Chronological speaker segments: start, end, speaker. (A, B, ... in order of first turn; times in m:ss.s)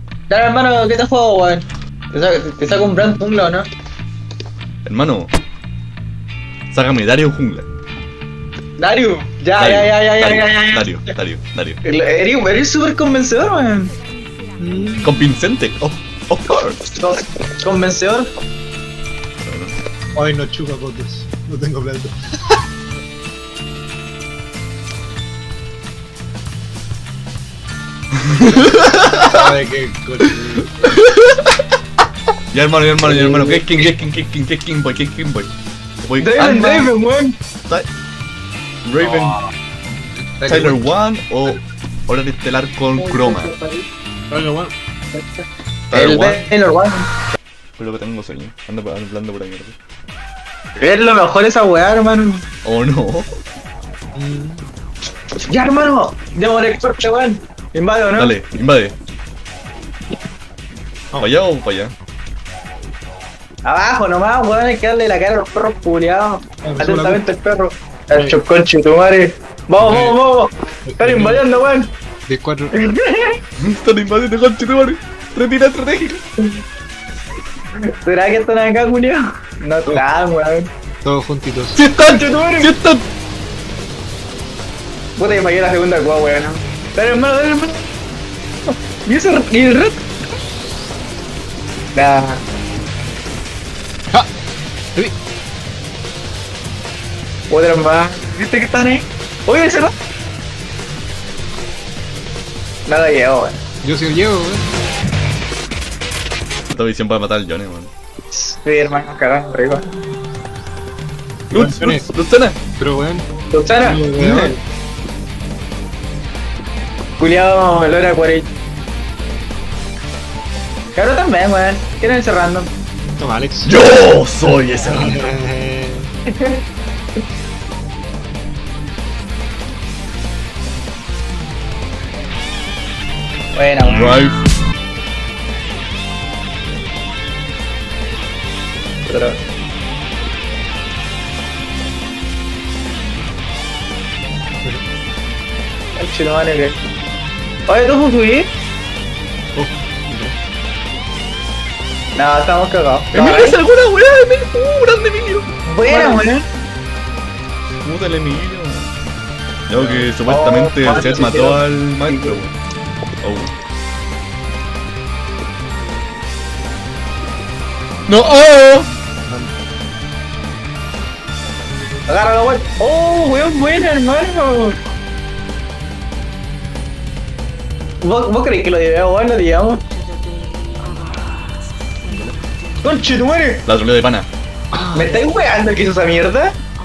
0:00.3-0:03.7 A
0:04.8-0:05.3 B
0:06.7-0:07.7 B
0:08.8-0:11.0 A
0:09.6-0:11.8 B
0:11.8-0:13.9 A
0:14.6-0:15.2 C
0:15.0-0:16.8 B
0:17.0-0:18.3 A
0:19.4-0:19.8 B
0:20.2-0:22.6 C
0:28.2-0:29.5 B
0:29.2-0:30.9 C
0:30.8-0:31.6 B
0:32.5-0:35.5 B
0:33.0-0:33.7 A
0:36.0-0:36.9 B
0:36.2-0:37.4 A
0:38.8-0:39.4 B
0:39.0-0:39.4 C
0:40.2-0:40.9 C
0:40.5-0:43.5 B
0:43.0-0:43.9 A
0:44.3-0:44.7 C
0:45.1-0:47.1 A
0:45.9-0:46.5 B
0:47.8-0:49.8 B
0:50.8-0:52.4 A
0:52.6-0:53.3 B
0:54.2-0:54.7 C
0:55.5-0:58.4 A
0:58.2-0:59.0 B
1:01.2-1:01.9 B
1:03.6-1:11.9 A
1:06.6-1:07.2 C
1:08.1-1:08.4 C
1:09.8-1:10.2 C
1:10.9-1:11.4 C
1:12.3-1:12.7 C
1:12.7-1:13.4 A
1:13.6-1:16.2 B
1:17.9-1:20.7 A
1:21.0-1:21.8 C
1:21.8-1:23.0 B
1:22.0-1:22.7 A
1:25.2-1:27.9 A
1:29.0-1:30.0 A
1:32.0-1:32.4 A
1:37.5-1:39.9 A
1:42.9-1:43.6 A
1:43.8-1:44.7 C
1:46.7-1:47.9 B
1:48.3-1:49.8 A
1:51.5-1:52.6 B
1:51.5-1:52.1 C
1:52.8-1:53.3 C
1:53.5-1:54.6 A
1:53.8-1:54.6 C
1:57.2-1:58.5 A
2:01.0-2:02.7 A
2:03.2-2:03.8 C
2:03.6-2:05.4 B
2:04.6-2:06.1 C
2:06.3-2:06.6 A
2:13.5-2:14.2 A
2:13.8-2:14.4 B
2:19.0-2:19.4 A
2:26.0-2:26.8 A
2:27.7-2:28.5 A
2:29.6-2:30.4 C
2:32.2-2:33.6 A
2:33.1-2:35.5 B
2:35.7-2:36.4 A
2:35.9-2:36.2 C
2:37.8-2:38.9 B
2:39.7-2:42.6 B
2:39.7-2:40.1 C
2:40.3-2:42.4 A
2:43.2-2:43.5 B
2:48.1-2:48.9 B
2:49.3-2:49.5 C
2:52.1-2:54.8 A
2:58.0-2:59.8 A
3:02.8-3:03.6 A
3:03.6-3:04.3 B
3:04.7-3:05.2 C
3:04.9-3:06.5 A